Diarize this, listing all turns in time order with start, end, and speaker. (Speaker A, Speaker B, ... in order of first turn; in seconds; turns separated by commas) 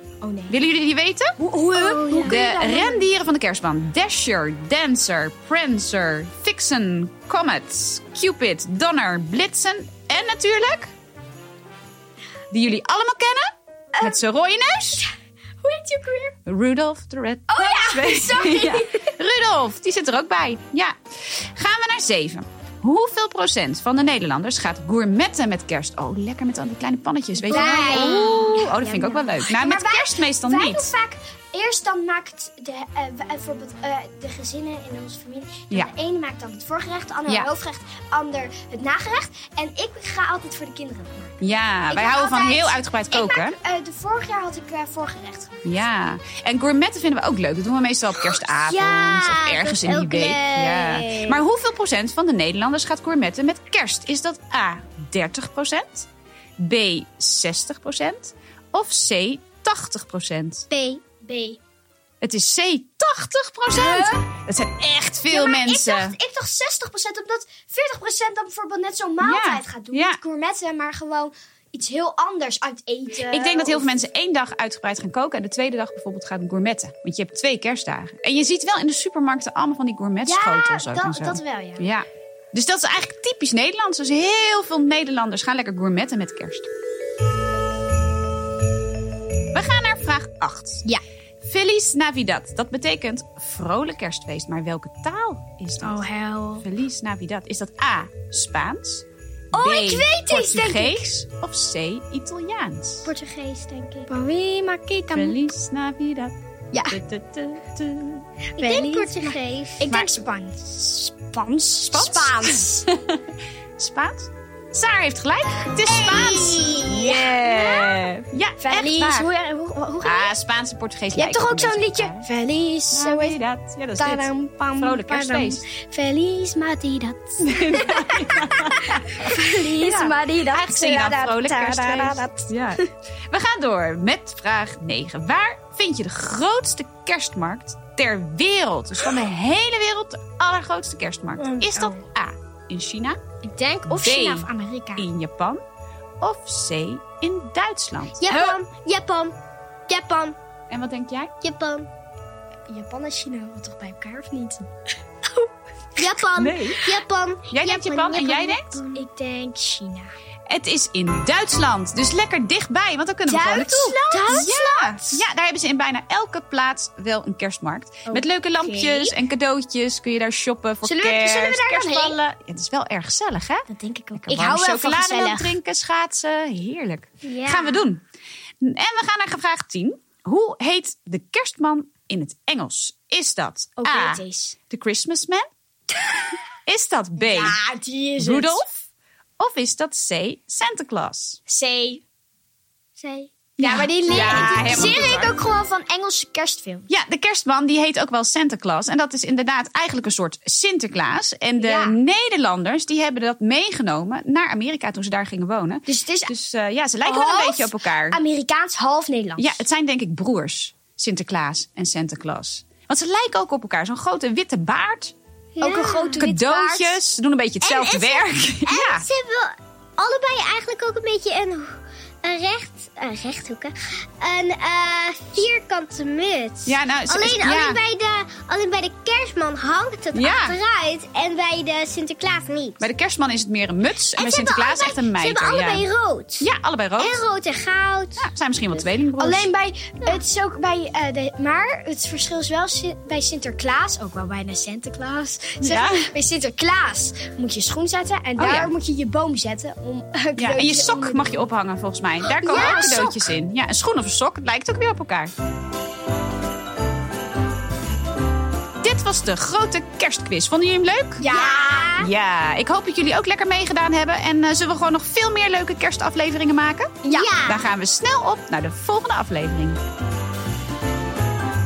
Speaker A: 0.2-0.6, Speaker B: 0.5-1.4, Speaker A: 1.4-3.1, Speaker C: 1.7-2.4, Speaker B: 2.2-10.9, Speaker B: 12.5-15.1, Speaker A: 13.9-14.3, Speaker A: 15.6-16.4, Speaker B: 16.5-30.9, Speaker A: 17.5-19.1, Speaker A: 27.4-41.4, Speaker C: 27.5-28.6, Speaker B: 41.4-43.6, Speaker A: 41.9-45.6, Speaker B: 45.6-56.1, Speaker C: 48.5-51.4, Speaker B: 56.6-60.7, Speaker C: 60.7-61.0, Speaker A: 61.2-61.6, Speaker B: 62.2-66.2, Speaker A: 63.7-64.3, Speaker A: 65.3-74.0, Speaker B: 69.2-70.2, Speaker B: 73.3-86.7, Speaker A: 80.2-81.8, Speaker B: 89.5-90.9, Speaker B: 91.4-103.1, Speaker A: 95.8-96.7, Speaker A: 99.5-101.1, Speaker C: 103.0-104.1, Speaker A: 104.1-105.4, Speaker B: 105.1-106.3, Speaker A: 106.7-107.0, Speaker B: 106.9-108.2, Speaker A: 108.6-112.9, Speaker C: 108.6-109.8, Speaker B: 111.9-113.2, Speaker B: 113.8-119.3, Speaker C: 115.9-116.8, Speaker A: 115.9-118.1, Speaker A: 118.6-120.3, Speaker B: 120.0-122.3, Speaker A: 121.1-123.4, Speaker B: 122.9-125.6, Speaker A: 124.0-132.8, Speaker B: 127.4-143.2, Speaker A: 143.4-145.1, Speaker B: 143.9-145.6, Speaker B: 146.2-148.4, Speaker C: 148.2-149.3, Speaker A: 148.3-148.6, Speaker C: 149.9-150.4, Speaker B: 150.7-151.3, Speaker C: 151.4-151.9, Speaker A: 152.7-154.7, Speaker A: 155.3-156.0, Speaker C: 156.0-159.0, Speaker B: 156.3-156.8, Speaker B: 157.5-158.8, Speaker A: 158.9-160.1, Speaker B: 160.5-178.0, Speaker A: 163.3-165.2, Speaker C: 164.1-164.6, Speaker A: 168.1-169.2, Speaker A: 170.8-172.2, Speaker A: 173.7-175.6, Speaker C: 177.2-177.9, Speaker B: 178.6-185.5, Speaker A: 183.8-184.6, Speaker B: 186.7-187.6, Speaker A: 187.2-188.6, Speaker B: 188.2-188.9, Speaker B: 189.4-191.4, Speaker A: 191.5-192.0, Speaker A: 193.0-196.9, Speaker B: 193.6-195.3, Speaker C: 194.1-195.1, Speaker B: 196.9-208.2, Speaker A: 201.6-202.0, Speaker A: 205.9-206.3, Speaker A: 207.0-209.6, Speaker B: 209.4-215.2, Speaker C: 215.6-216.2, Speaker A: 215.6-217.0, Speaker B: 216.2-219.1, Speaker C: 217.6-232.9, Speaker B: 226.7-227.8, Speaker B: 230.1-230.6, Speaker B: 232.8-235.9, Speaker C: 234.2-236.5, Speaker B: 236.4-237.2, Speaker C: 237.0-238.3, Speaker B: 238.2-239.5, Speaker A: 239.2-251.5, Speaker B: 245.6-246.1, Speaker B: 248.4-248.7, Speaker B: 250.4-255.3, Speaker A: 252.3-253.2, Speaker C: 252.5-253.0, Speaker B: 258.8-261.3, Speaker A: 261.2-262.0, Speaker C: 261.3-262.1, Speaker B: 262.0-269.8, Speaker A: 267.0-267.3, Speaker C: 267.1-267.7